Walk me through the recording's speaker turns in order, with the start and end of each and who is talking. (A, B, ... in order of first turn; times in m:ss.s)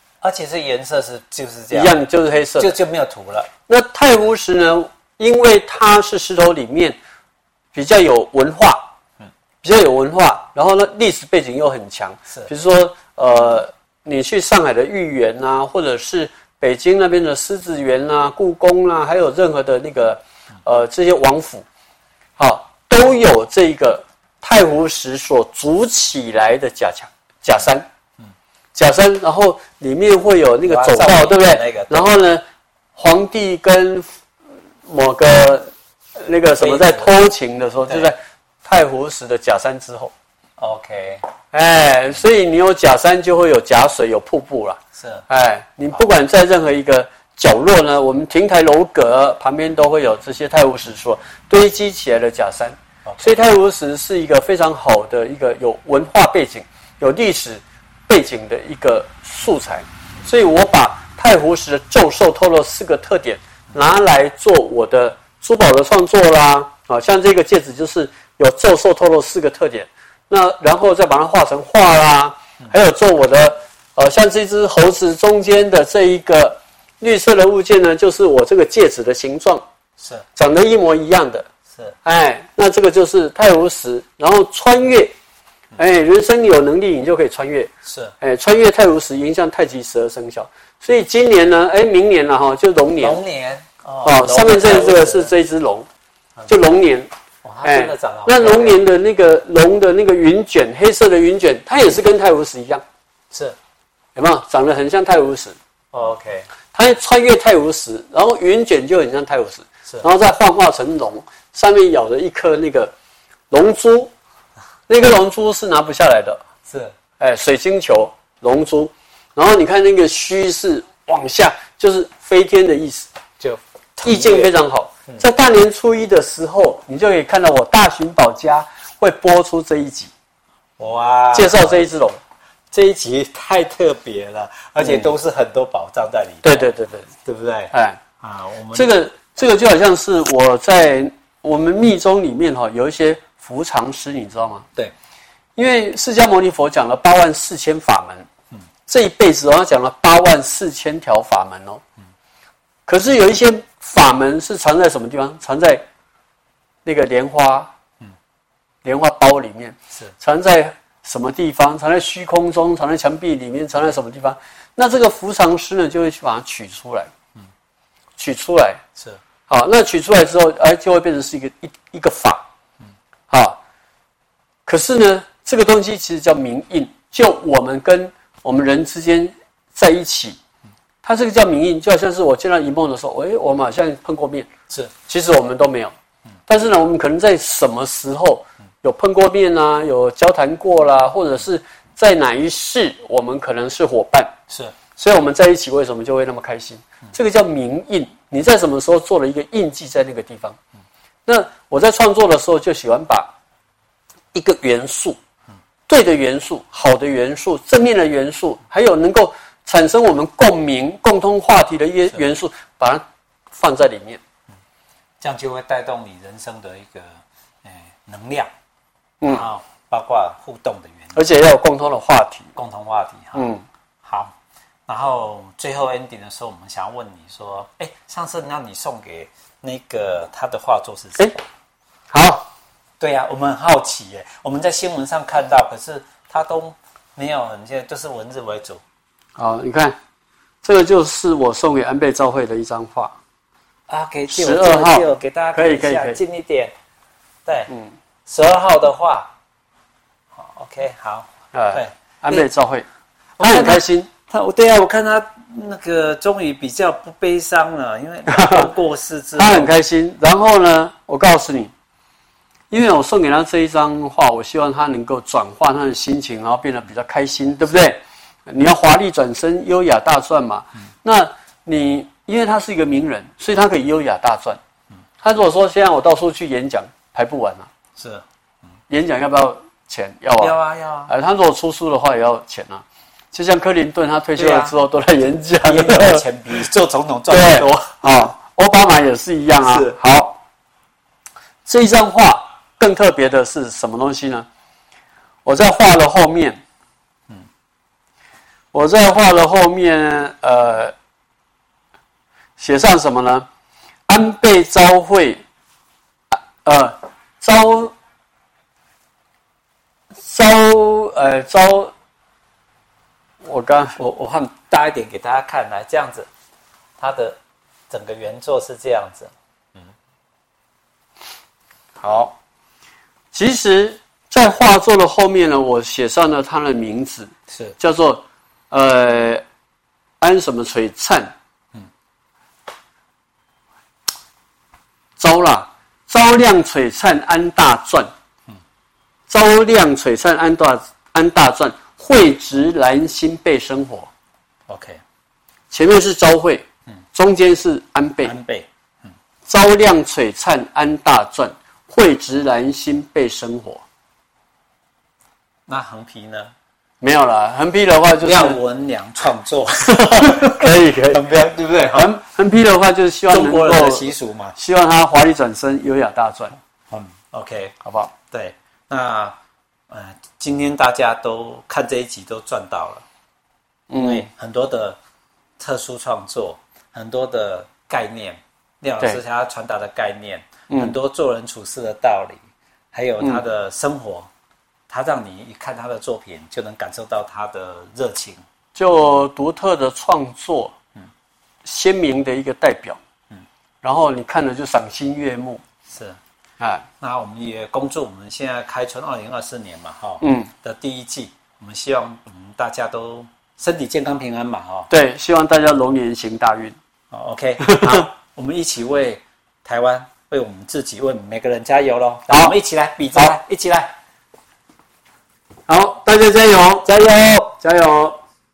0:00.2-0:02.0 A
0:01.7-0:02.8 B
0:02.6-0:03.5 A
0:03.7-0:07.0 B
0:07.7-0:08.9 B
0:09.6-0:21.6 B
0:22.4-0:27.9 B
0:28.8-0:32.4 B
0:30.7-0:32.1 A
0:33.0-0:34.1 B
0:34.9-0:40.1 B
0:36.6-0:37.1 A
0:40.6-0:41.2 A
0:41.5-1:19.6 B
0:45.0-0:45.3 A
0:53.0-0:53.4 A
1:20.0-1:20.2 A
1:20.4-1:21.5 B
1:22.0-1:25.1 B
1:25.8-1:33.2 B
1:27.9-1:28.1 A
1:33.0-1:35.3 A
1:34.0-1:35.9 B
1:36.5-1:37.1 B
1:37.4-1:38.8 A
1:37.6-1:42.8 B
1:44.1-1:45.6 B
1:45.9-1:46.5 A
1:46.7-1:52.9 B
1:53.5-1:54.1 B
1:54.9-1:56.4 B
1:56.7-1:57.0 A
1:57.2-2:03.1 B
2:03.4-2:04.5 A
2:04.0-2:10.1 B
2:10.8-2:11.9 A
2:11.3-2:12.2 B
2:12.7-2:16.7 A
2:14.8-2:15.1 B
2:16.4-2:17.1 B
2:17.2-2:18.9 A
2:17.7-2:18.0 B
2:18.7-2:24.7 B
2:25.6-2:28.3 B
2:28.9-2:31.8 B
2:32.9-2:35.9 B
2:36.8-2:37.7 B
2:38.8-2:47.1 B
2:48.2-2:48.8 B
2:49.5-2:52.5 B
2:53.3-2:53.6 B
2:54.7-3:00.4 B
3:01.0-3:04.5 B
3:05.1-3:05.9 B
3:06.5-3:14.3 B
3:14.5-3:14.8 A
3:15.0-3:20.6 B
3:21.3-3:23.3 B
3:24.3-3:25.2 B
3:25.9-3:34.2 B
3:35.2-3:38.5 A
3:39.2-3:41.2 A
3:41.1-3:42.5 B
3:42.6-3:43.5 A
3:43.3-3:43.6 B
3:44.0-3:44.3 A
3:44.9-3:51.3 A
3:52.1-3:52.5 B
3:53.0-3:58.8 A
3:59.4-4:00.0 B
4:00.6-4:03.2 B
4:03.9-4:06.7 A
4:04.3-4:06.2 B
4:07.5-4:07.7 A
4:08.3-4:09.4 A
4:10.4-4:12.5 A
4:11.5-4:12.9 B
4:13.4-4:19.7 A
4:13.4-4:14.1 B
4:18.3-4:18.7 B
4:19.4-4:21.7 B
4:22.7-4:34.6 B
4:35.2-4:37.7 B
4:38.0-4:38.2 A
4:38.9-4:40.6 B
4:40.4-4:41.1 A
4:41.1-4:46.2 B
4:44.4-4:44.7 A
4:45.6-4:47.8 A
4:47.3-4:50.4 B
4:49.6-4:50.0 A
4:51.7-4:54.5 B
4:55.4-4:56.6 B
4:58.7-5:01.0 B
5:02.6-5:03.5 B
5:04.1-5:05.4 B
5:06.3-5:07.9 B
5:10.2-5:11.9 B
5:13.4-5:14.0 B
5:14.0-5:16.3 A
5:17.0-5:17.4 A
5:17.9-5:19.3 A
5:22.0-5:22.4 B
5:23.3-5:29.4 B
5:30.2-5:31.3 B
5:35.2-5:38.1 B
5:39.3-5:44.1 B
5:44.7-5:45.0 A
5:45.7-5:48.3 B
5:48.2-5:48.7 A
5:49.5-5:53.8 B
5:55.7-5:56.5 A
5:57.0-5:58.6 B
5:58.2-6:02.2 A
6:00.0-6:06.6 B
6:03.3-6:04.6 A
6:06.9-6:09.4 A
6:07.8-6:08.1 B
6:09.9-6:13.0 A
6:13.9-6:14.3 B
6:14.0-6:15.0 A
6:15.6-6:22.4 A
6:20.7-6:21.0 B
6:22.9-6:24.3 A
6:24.9-6:28.4 A
6:28.8-6:30.8 B
6:31.6-6:33.0 B
6:33.8-6:35.6 B
6:35.9-6:36.2 A
6:36.6-6:36.9 B
6:37.0-6:44.9 A
6:40.2-6:40.5 B
6:44.9-6:46.8 B
6:47.1-6:53.9 A
6:47.6-6:48.1 B
6:55.7-6:56.9 B
6:56.8-6:57.5 A
6:57.5-6:58.2 B